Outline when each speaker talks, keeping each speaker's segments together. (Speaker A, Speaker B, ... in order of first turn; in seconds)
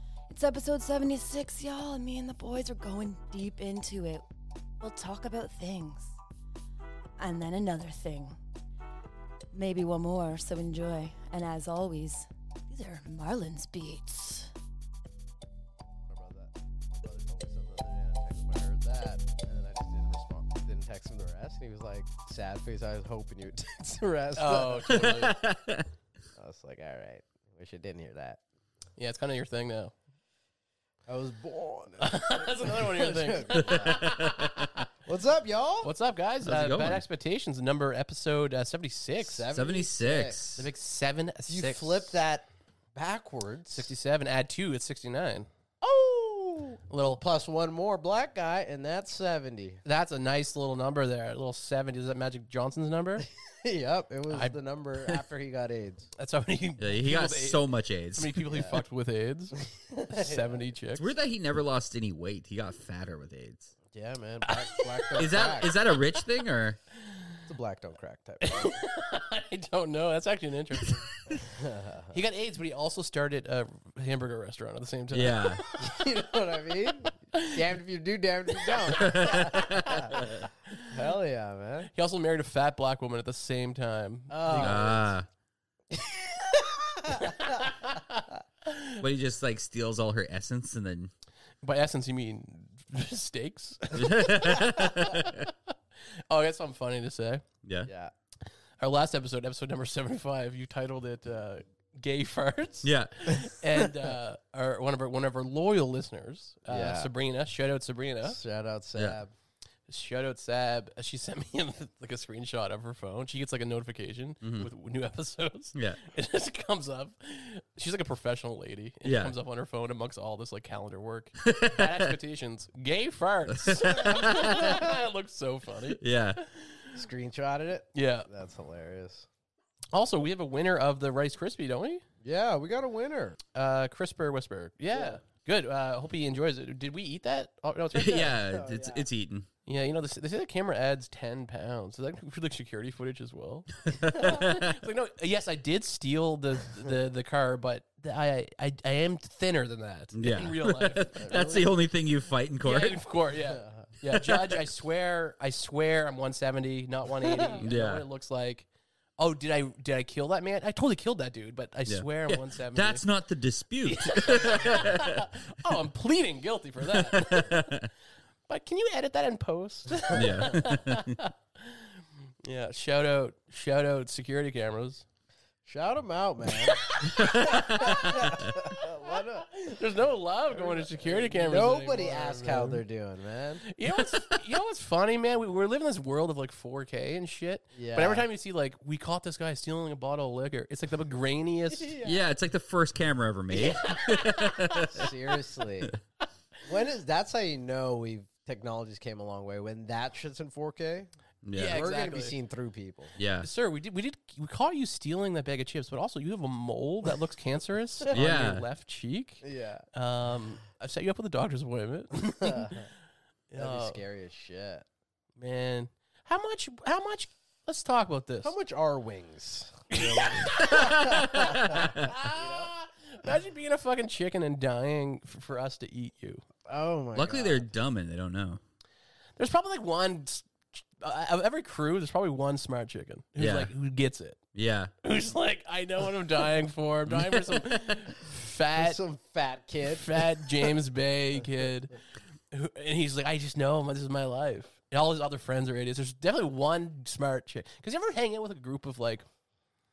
Speaker A: 0.3-4.2, 4.8-6.2, 7.2-8.4, 9.5-14.5
Speaker B: 16.1-25.4, 26.4-28.4, 31.1-34.2, 35.1-35.9, 39.2-40.4, 41.5-43.9, 45.8-49.8, 53.5-56.1, 58.5-58.8, 59.9-60.7, 63.9-65.7, 67.5-68.8, 71.5-72.2, 75.8-80.1, 80.8-81.9, 84.3-85.0, 85.9-87.6, 97.9-98.1, 106.7-107.1, 108.3-109.3, 124.0-124.9, 127.0-129.3, 132.2-133.4, 134.9-135.2, 138.3-139.1, 151.1-151.8, 153.5-153.9, 157.2-157.6, 170.1-170.7, 175.7-179.6, 180.5-183.6, 187.7-188.3, 191.7-192.2, 194.9-195.9, 196.7-201.1, 201.6-203.1, 209.4-209.8, 212.4-212.9, 213.6-214.9, 218.4-222.7, 226.7-227.7, 238.8-240.8
Speaker C: 24.4-25.4, 29.0-29.9, 32.0-34.8, 35.8-39.5, 40.6-42.1, 43.7-45.5, 46.9-47.2, 49.9-53.3, 54.3-54.6, 56.2-61.1, 64.5-65.9, 68.4-71.1, 72.1-76.0, 77.3-77.6, 78.6-80.3, 81.9-85.1, 87.1-89.0, 91.6-95.5, 96.3-97.4, 98.8-108.4, 109.9-127.0, 127.9-128.3, 129.9-132.0, 133.5-138.4, 139.7-151.1, 152.6-158.7, 159.2-163.1, 163.8-167.7, 168.5-175.1, 176.6-182.8, 183.6-192.0, 193.6-195.1, 201.5-202.4, 203.4-212.9, 213.5-214.0, 215.4-218.5, 219.9-226.5, 229.4-234.4, 235.0-239.0, 239.9-242.0, 242.5-249.3
Speaker D: 25.0-25.9, 33.7-34.4, 36.4-37.0, 39.5-40.7, 56.8-58.5, 61.0-63.8, 65.2-66.8, 75.1-75.6, 79.0-80.5, 84.5-85.3, 89.0-91.1, 93.9-95.5, 97.6-97.9, 102.8-103.5, 114.4-114.7, 115.8-116.0, 119.0-119.4, 121.4-122.1, 123.5-124.8, 126.0-126.4, 137.9-139.5, 143.9-144.8, 150.1-153.0, 154.1-154.6, 157.6-158.1, 161.9-165.3, 166.9-167.9, 170.1-171.2, 177.2-178.5, 192.0-195.1, 201.4-201.9, 203.2-203.5, 208.1-208.7, 220.8-222.0, 227.2-228.6, 233.4-233.7, 234.6-234.9, 237.1-237.7